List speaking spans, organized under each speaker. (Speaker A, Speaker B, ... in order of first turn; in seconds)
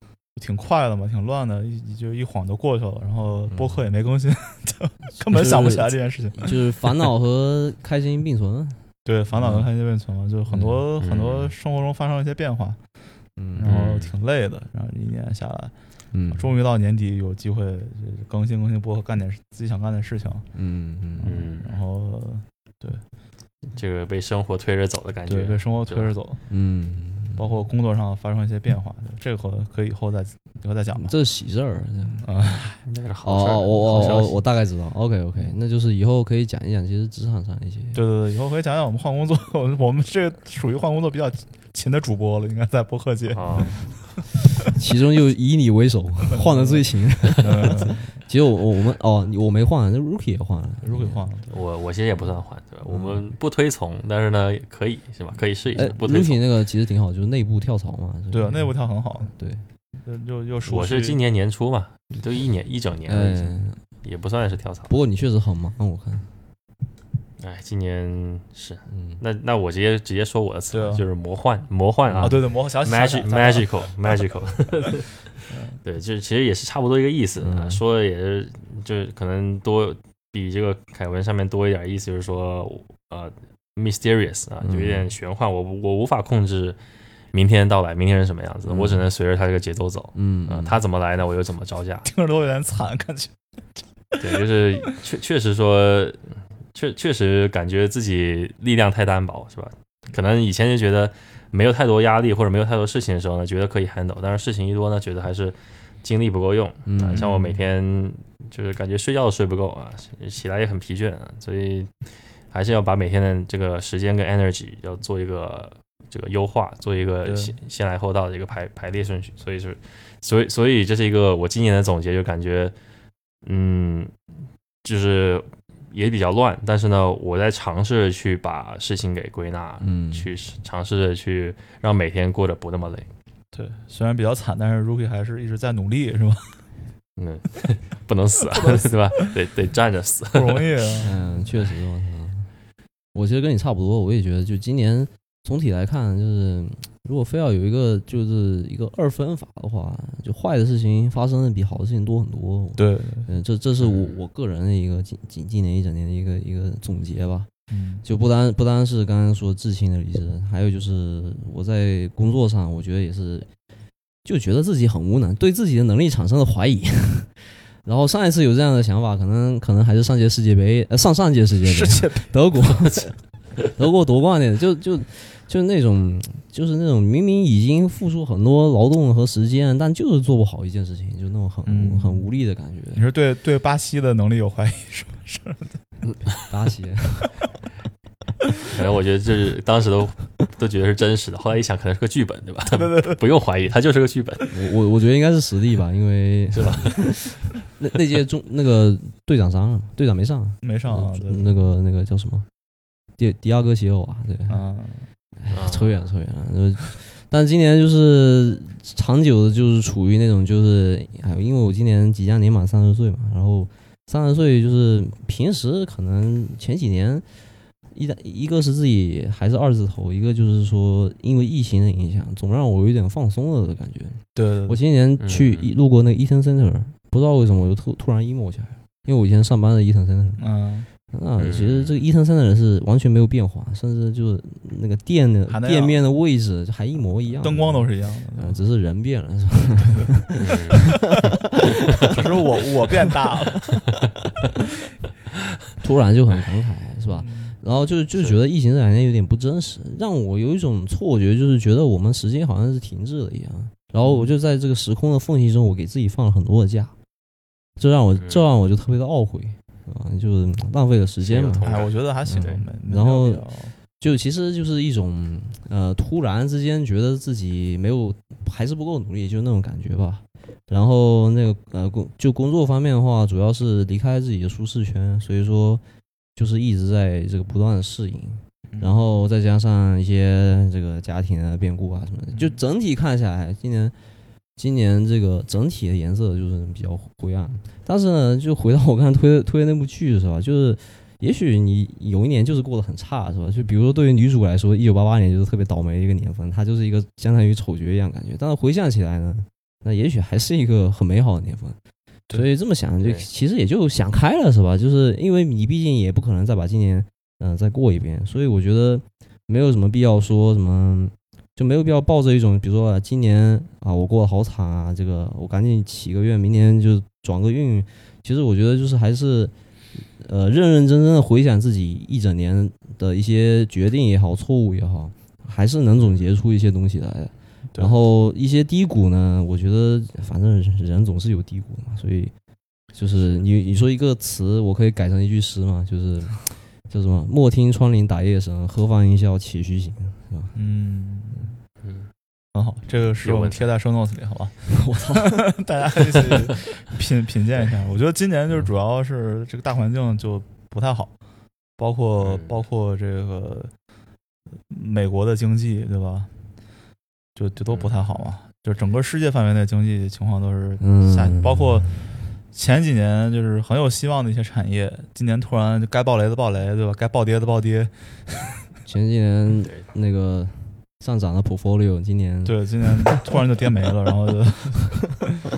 Speaker A: 0.3-6.5, 9.0-12.8, 13.6-15.7, 16.3-20.4, 21.2-23.0, 25.3-26.4, 27.4-31.1, 32.2-32.8, 34.0-34.2, 37.9-43.9, 46.3-48.0, 50.8-51.5, 58.3-59.3, 60.0-61.2, 70.7-71.0, 72.2-74.1, 75.5-75.7, 92.0-93.3, 94.1-95.0, 107.0-107.6, 117.2-117.5, 133.5-136.6, 138.5-139.3, 140.3-141.1, 152.8-153.3, 157.7-158.0, 171.6-172.3, 181.7-182.3, 182.9-185.8, 192.7-193.2, 200.6-201.5, 204.5-205.0, 224.3-224.8, 230.4-230.9, 235.5-236.0, 237.4-238.6, 242.1-243.8, 247.1-247.6, 254.0-254.3, 261.6-263.8, 278.7-278.9, 340.5-341.5, 342.5-351.1, 351.8-353.7, 354.7-356.3, 357.4-362.0, 362.5-368.5, 372.4-375.3
Speaker B: 3.5-3.7, 11.0-11.5, 13.7-14.1, 21.2-21.7, 23.7-26.1, 32.8-34.3, 43.3-43.9, 51.5-56.4, 60.6-64.9, 67.4-75.2, 75.8-86.8, 87.3-92.1, 94.2-111.9, 112.5-122.7, 123.4-124.1, 124.8-133.1, 137.2-140.8, 153.8-154.1, 188.7-194.6, 196.5-197.3, 205.5-206.1, 225.2-225.7, 231.4-231.9, 240.4-240.9, 258.2-258.5, 261.2-262.6, 341.8-342.1, 343.2-343.7, 352.2-352.6
Speaker C: 5.3-8.8, 9.3-9.7, 10.5-10.9, 13.4-13.7, 16.1-16.6, 20.5-21.4, 26.5-27.5, 30.9-32.3, 33.2-38.0, 44.7-51.2, 52.9-53.2, 55.7-58.7, 59.3-59.6, 63.1-63.8, 64.9-66.3, 68.9-69.2, 77.4-77.8, 84.6-85.1, 88.7-89.0, 90.1-90.8, 106.8-107.2, 129.8-130.3, 141.0-142.5, 143.1-157.5, 158.0-163.5, 164.2-173.2, 173.7-183.0, 186.0-187.4, 194.5-202.4, 203.2-204.6, 205.4-217.3, 217.9-230.4, 231.1-242.1, 245.8-256.9, 257.8-263.4, 264.0-275.8, 276.4-283.9, 284.6-301.8, 302.3-332.3, 332.9-340.6, 344.6-345.5, 360.8-361.9, 368.8-373.2